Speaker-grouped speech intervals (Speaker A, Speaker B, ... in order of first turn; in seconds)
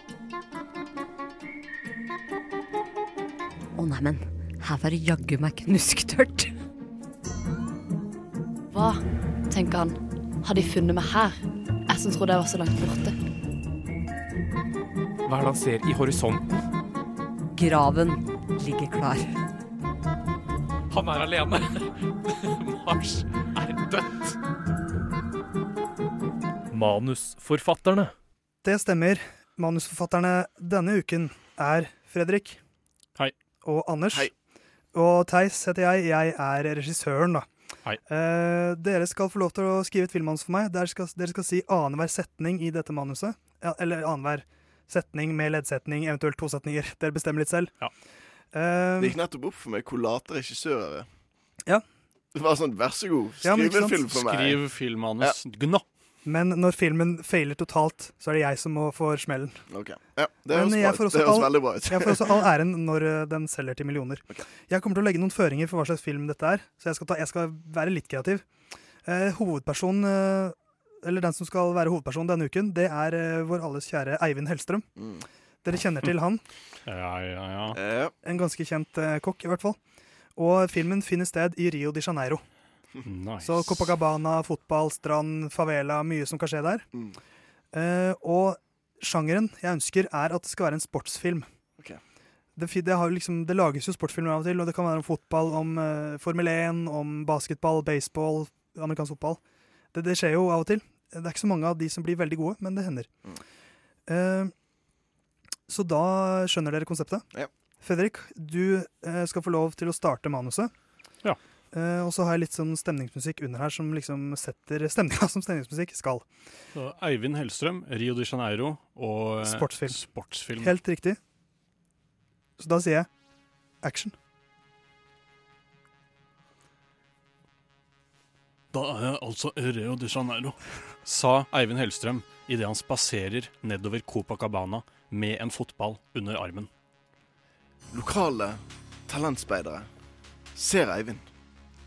Speaker A: 3.7-6.5, 17.5-19.3
Speaker B: 8.7-11.4, 11.9-13.1
Speaker C: 15.3-16.4, 21.0-21.5, 26.7-28.1
Speaker D: 28.6-32.6, 33.6-34.3, 34.9-37.5, 38.0-47.7, 48.5-49.2, 53.4-54.0, 56.2-59.6, 60.5-68.5, 69.0-74.8, 75.6-76.4, 78.2-79.8, 80.3-82.4, 83.4-86.8, 87.7-91.5, 92.6-99.4, 99.9-103.1, 104.1-104.5, 105.7-107.2, 107.8-110.7, 111.7-116.3, 119.4-120.0, 120.6-121.2, 122.6-123.1, 123.8-124.1
Speaker E: 49.0-51.1, 52.3-54.6, 59.7-62.4, 75.0-75.2, 77.7-78.1, 137.9-139.9, 140.6-141.2
Speaker F: 54.1-55.8, 76.8-77.8, 83.0-83.9, 116.7-120.8, 128.7-136.7